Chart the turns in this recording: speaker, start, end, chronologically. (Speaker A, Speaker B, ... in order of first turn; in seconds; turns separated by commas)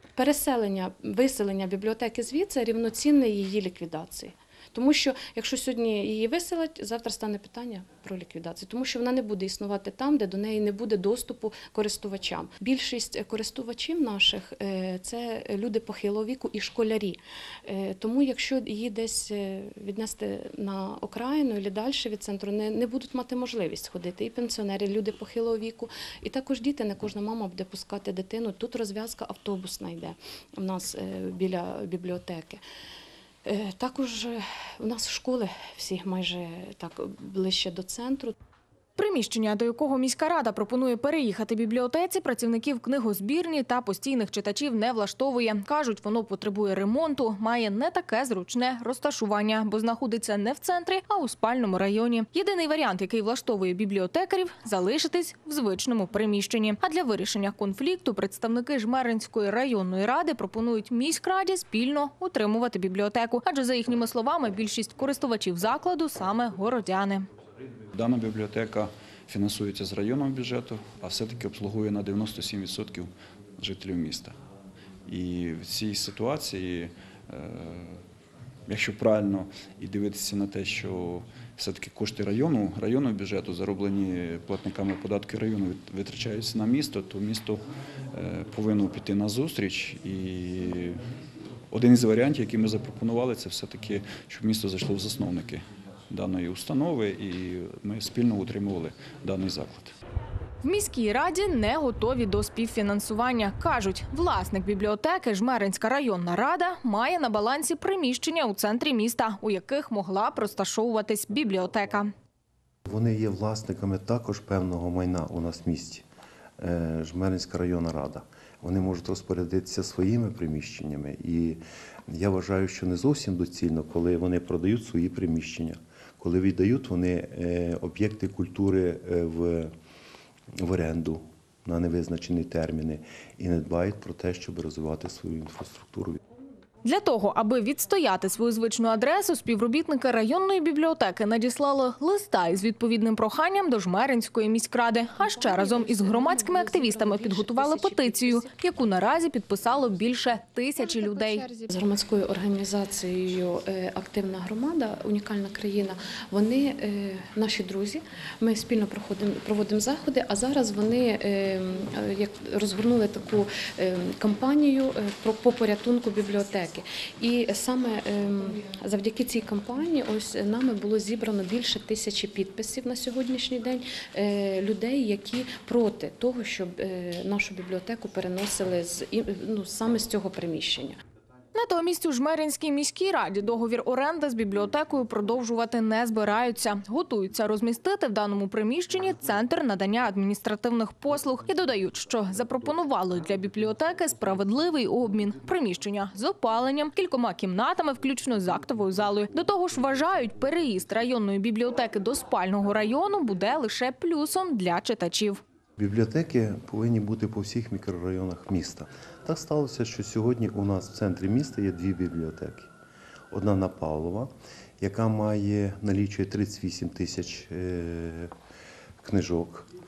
Speaker A: 0.1-32.6, Speaker A: 33.4-38.3, Speaker B: 39.0-67.3, Speaker C: 67.9-74.3, Speaker C: 75.1-78.0, Speaker C: 78.7-87.6, Speaker C: 88.1-91.0, Speaker C: 91.7-99.9, Speaker B: 100.6-112.1, Speaker D: 112.9-116.0, Speaker D: 116.6-129.7, Speaker D: 130.5-136.2, Speaker B: 136.8-151.5, Speaker A: 145.2-148.4, Speaker A: 151.7-181.0, Speaker B: 181.5-205.4, Speaker D: 205.8-212.7, Speaker D: 213.3-218.3, Speaker D: 219.0-219.7